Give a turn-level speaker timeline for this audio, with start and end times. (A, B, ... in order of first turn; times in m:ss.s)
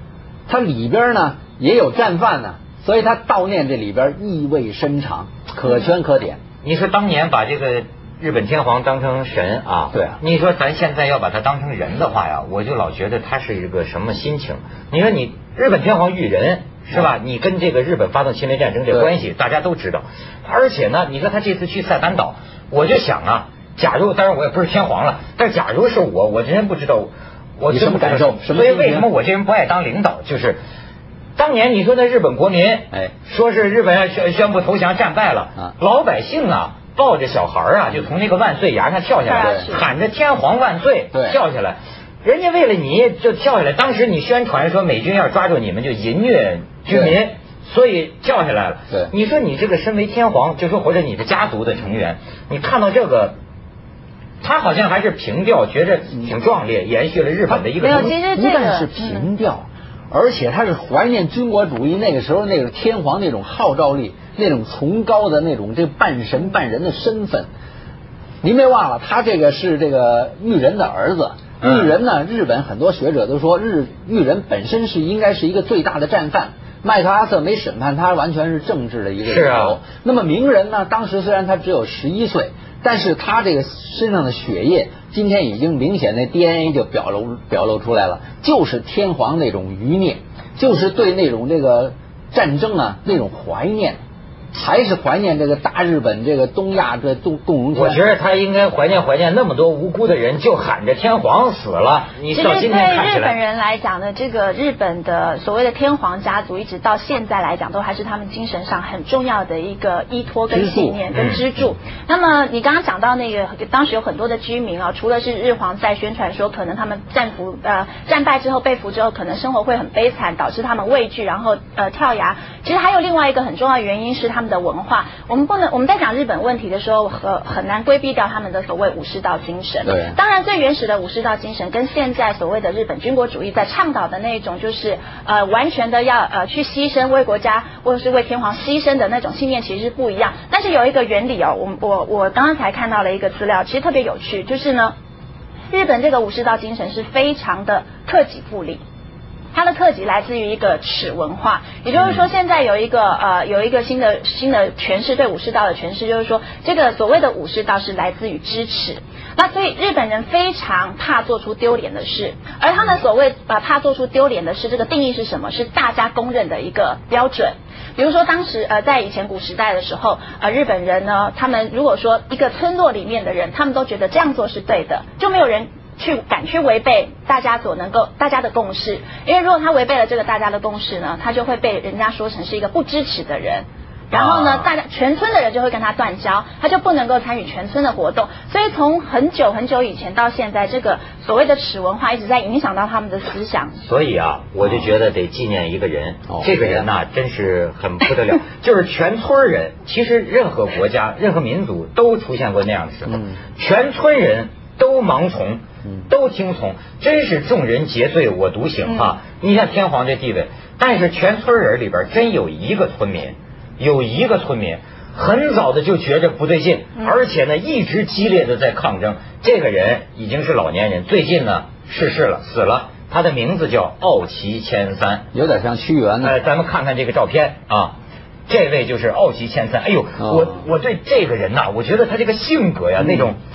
0:00.5-0:06.4 A
0:06.6-0:30.6 B
0:09.9-0:10.2 A
0:27.7-0:29.1 A
0:31.4-0:53.4 B
0:39.2-0:39.8 C
0:41.1-0:41.4 A
0:46.9-0:47.2 A
0:54.4-0:58.2 B
0:57.8-0:59.2 C
0:57.9-1:07.5 A
1:08.4-1:34.0 A
1:11.6-1:11.9 B
1:19.3-1:19.8 B
1:34.5-1:38.0 A
1:37.7-1:43.3 B
1:42.3-2:25.0 C
1:50.5-1:51.0 A
1:51.1-1:51.4 B
2:09.9-2:10.2 A
2:25.7-2:28.8 C
2:29.5-3:13.8 C
3:04.1-3:04.7 B
3:13.9-3:45.3 B
3:16.3-3:16.8 A
3:23.1-3:23.4 A
3:45.3-3:46.4 A
3:46.2-3:48.0 B
3:48.5-3:53.4 B
3:50.2-3:50.5 A